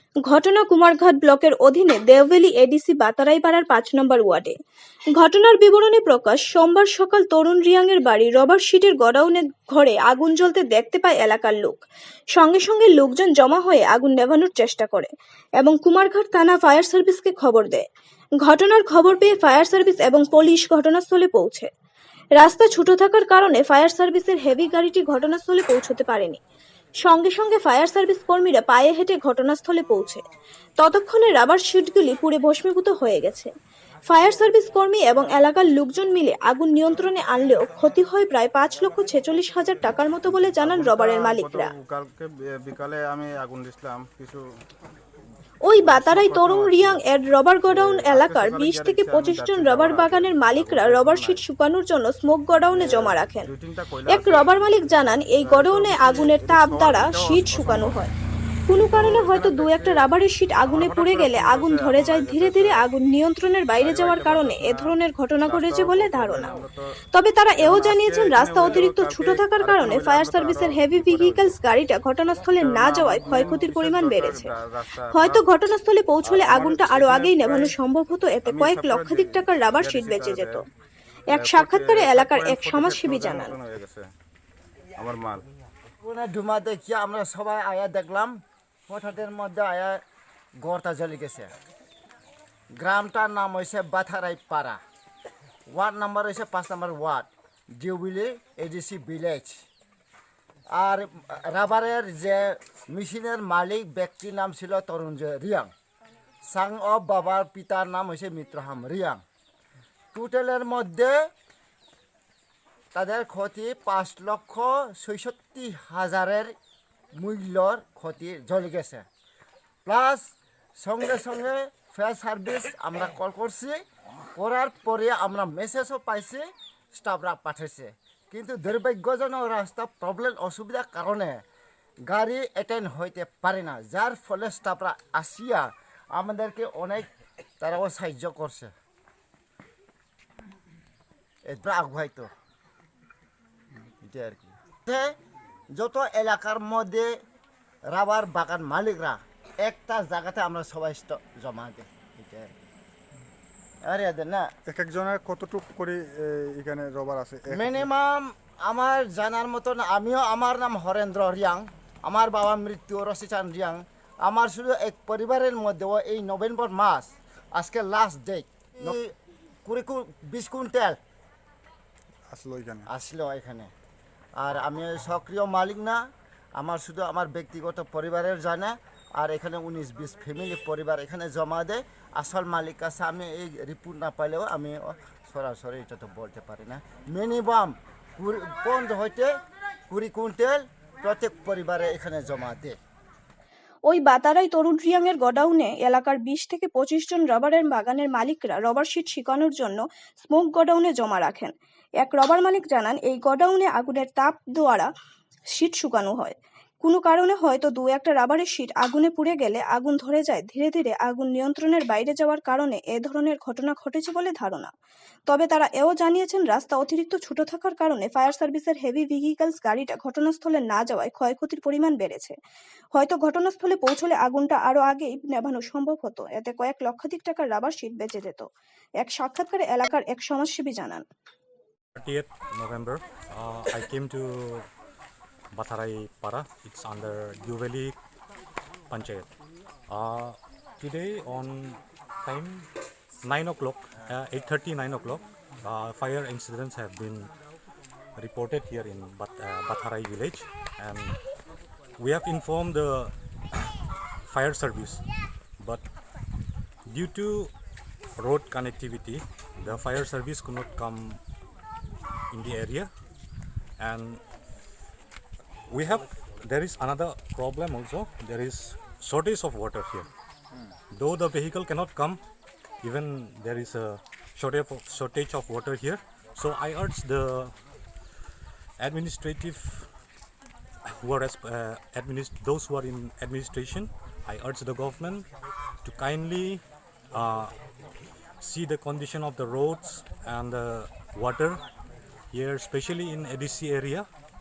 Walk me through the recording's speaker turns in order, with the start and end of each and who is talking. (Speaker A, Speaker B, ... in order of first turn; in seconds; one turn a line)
Speaker A: 0.2-4.6
Speaker A: 5.2-11.8
Speaker A: 12.3-17.9
Speaker A: 18.4-21.7
Speaker A: 22.4-26.4
Speaker A: 27.0-30.2
Speaker A: 30.8-33.5
Speaker A: 34.1-41.7
Speaker B: 40.3-44.4
Speaker A: 45.6-53.5
Speaker B: 45.8-47.0
Speaker B: 47.7-51.4
Speaker B: 52.7-58.0
Speaker A: 54.1-58.1
Speaker A: 58.7-66.6
Speaker B: 58.7-60.0
Speaker B: 60.6-62.8
Speaker B: 63.8-64.9
Speaker B: 65.4-67.0
Speaker A: 67.1-74.5
Speaker B: 67.6-71.5
Speaker B: 72.5-75.5
Speaker A: 75.1-80.6
Speaker B: 76.2-77.7
Speaker B: 78.4-80.6
Speaker A: 81.3-83.5
Speaker B: 81.3-84.1
Speaker B: 84.9-85.5
Speaker C: 86.0-90.0
Speaker C: 90.6-91.5
Speaker C: 92.8-94.8
Speaker C: 95.7-99.7
Speaker C: 100.7-105.7
Speaker C: 106.4-109.2
Speaker C: 110.1-111.3
Speaker C: 112.9-116.5
Speaker C: 117.2-119.0
Speaker C: 119.8-123.8
Speaker C: 124.3-131.4
Speaker C: 132.1-138.7
Speaker C: 141.5-142.3
Speaker C: 144.0-145.1
Speaker C: 145.8-147.2
Speaker C: 147.9-152.5
Speaker C: 153.8-154.5
Speaker D: 154.7-157.9
Speaker C: 157.5-169.1
Speaker C: 169.6-171.0
Speaker D: 172.3-172.9
Speaker C: 172.9-173.7
Speaker C: 174.4-176.0
Speaker C: 176.6-189.3
Speaker C: 189.9-192.8
Speaker A: 193.9-204.9
Speaker A: 205.5-214.7
Speaker A: 215.3-222.4
Speaker A: 222.9-228.5
Speaker A: 229.0-231.0
Speaker E: 231.9-234.7
Speaker E: 235.5-237.9
Speaker E: 238.9-239.3
Speaker E: 239.9-242.7
Speaker E: 243.2-247.3
Speaker E: 248.2-251.2
Speaker E: 252.0-255.0
Speaker E: 256.9-257.5
Speaker E: 258.1-261.2
Speaker E: 262.3-262.9
Speaker E: 263.8-264.2
Speaker E: 265.7-270.1
Speaker E: 270.9-272.2
Speaker E: 272.8-277.5
Speaker E: 278.8-279.9
Speaker E: 280.9-285.3
Speaker E: 285.8-287.5
Speaker E: 288.4-291.6
Speaker E: 292.3-294.1